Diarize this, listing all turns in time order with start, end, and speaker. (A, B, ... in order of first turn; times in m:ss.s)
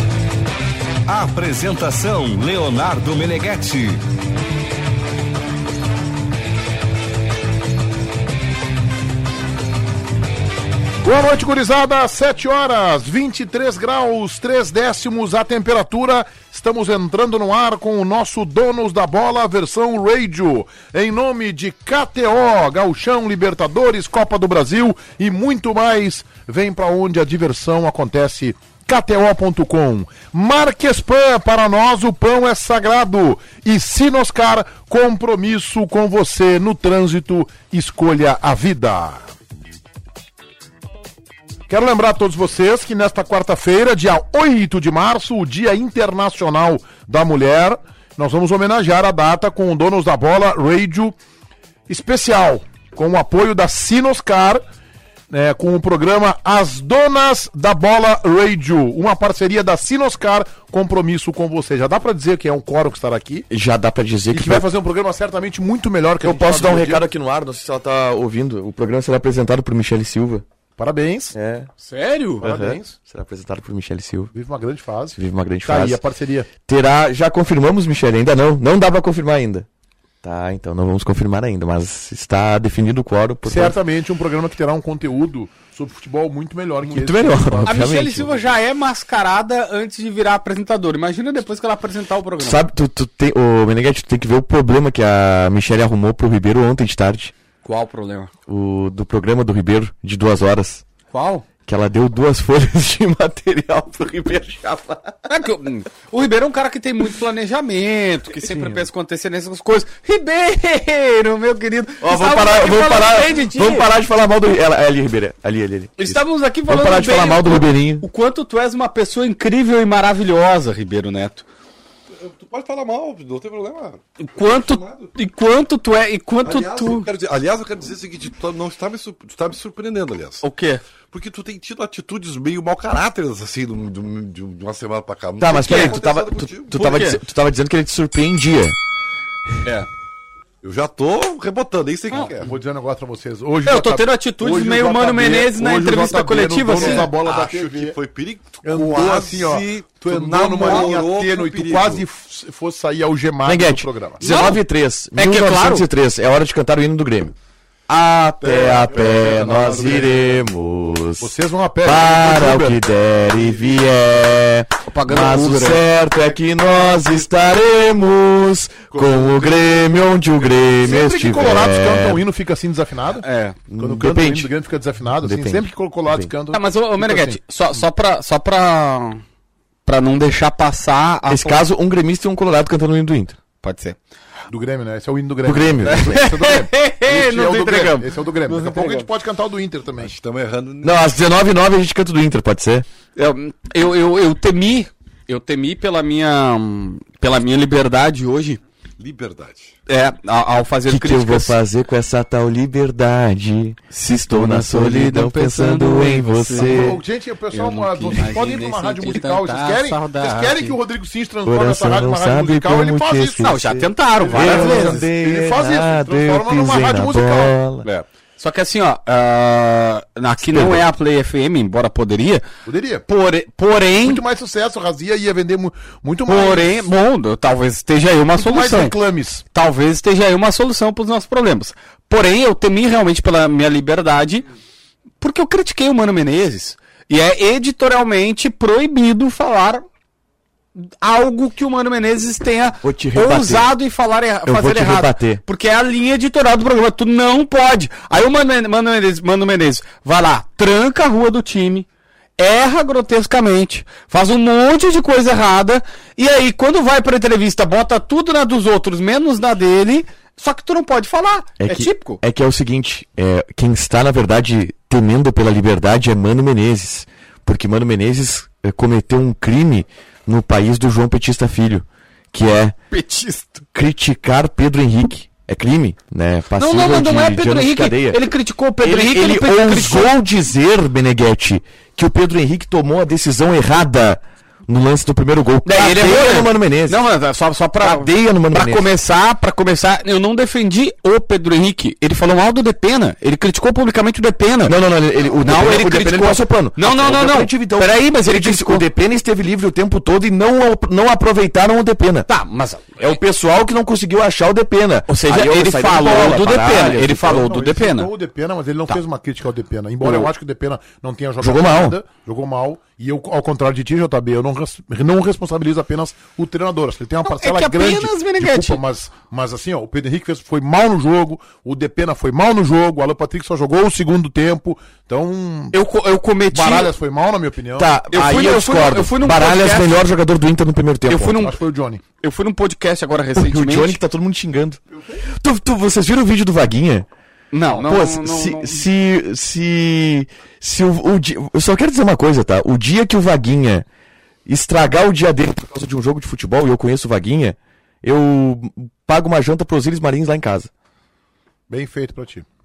0:01.1-0:04.0 A
0:11.0-0:39.3 B
0:41.7-0:51.1 B
0:51.9-0:54.6 B
0:55.3-1:03.5 B
1:03.5-1:04.7 C
1:04.3-1:07.0 B
1:06.2-1:10.4 C
1:10.8-1:11.3 B
1:11.3-1:11.7 C
1:11.8-1:12.4 D
1:12.4-1:14.3 C
1:12.4-1:12.9 B
1:14.3-1:16.5 B
1:15.2-1:16.0 C
1:16.6-1:19.7 C
1:20.2-1:23.8 C
1:23.4-1:27.8 B
1:26.8-1:28.3 C
1:27.6-1:32.6 D
1:32.4-1:37.3 C
1:37.6-1:38.3 D
1:38.5-1:40.8 C
1:41.1-1:41.4 D
1:41.6-1:45.3 C
1:45.3-1:53.9 D
1:52.0-1:58.0 C
1:56.0-2:01.4 D
2:02.1-2:05.1 E
2:04.2-2:07.1 D
2:06.4-2:10.4 E
2:10.4-2:10.8 D
2:11.1-2:17.0 E
2:15.4-2:18.8 C
2:15.6-2:16.0 D
2:16.7-2:17.2 D
2:20.6-2:22.6 E
2:22.1-2:28.0 B
2:23.6-2:27.1 D
2:26.7-2:32.0 E
2:28.6-2:34.2 B
2:33.4-2:37.3 C
2:34.2-2:34.6 D
2:35.2-2:35.8 D
2:37.9-2:52.2 C
2:38.4-2:40.3 B
2:39.2-2:39.9 E
2:41.2-2:42.8 B
2:43.0-2:44.0 E
2:44.8-2:45.8 D
2:46.6-2:47.3 E
2:48.9-2:49.8 E
2:50.8-2:53.2 B
2:53.2-2:53.6 D
2:53.7-2:54.5 C
2:53.8-2:57.4 B
2:55.2-2:56.3 C
2:56.5-2:59.2 D
2:59.8-3:01.6 D
3:01.3-3:03.4 C
3:03.6-3:04.0 D
3:04.5-3:10.1 B
3:05.4-3:06.2 C
3:05.8-3:09.1 D
3:10.0-3:11.1 E
3:10.8-3:12.9 C
3:13.2-3:18.6 D
3:19.0-3:19.8 E
3:19.9-3:21.6 D
3:20.9-3:27.0 C
3:23.9-3:27.0 D
3:26.5-3:37.6 B
3:27.5-3:30.8 D
3:31.4-3:37.9 C
3:33.4-3:35.0 D
3:37.8-3:42.4 D
3:40.4-3:40.8 C
3:42.6-3:43.0 B
3:43.1-3:44.2 D
3:44.0-3:46.9 B
3:46.3-3:49.0 D
3:48.3-3:49.4 B
3:49.5-3:54.4 D
3:55.2-3:59.8 D
4:00.7-4:11.9 D
4:02.8-4:03.7 C
4:04.4-4:05.4 C
4:12.4-4:22.2 D
4:21.6-4:32.8 C
4:32.9-4:33.6 D
4:33.7-4:47.0 C
4:36.6-4:40.1 D
4:45.6-4:54.8 D
4:47.8-4:48.8 C
4:54.6-5:02.3 C
4:55.4-4:58.8 D
5:02.3-5:03.2 D
5:03.0-5:07.5 C
5:05.1-5:08.1 D
5:06.9-5:25.7 B
5:10.0-5:10.3 C
5:11.4-5:12.0 C
5:17.2-5:18.8 D
5:25.7-5:26.9 D
5:26.5-5:27.9 B
5:27.8-5:31.4 C
5:28.1-5:30.0 D
5:31.1-5:31.6 D
5:31.3-5:32.0 B
5:32.2-5:34.0 D
5:33.3-5:37.1 C
5:34.9-5:35.2 B
5:37.5-5:38.8 D
5:37.7-5:43.8 C
5:44.4-5:50.7 C
5:51.7-5:52.4 B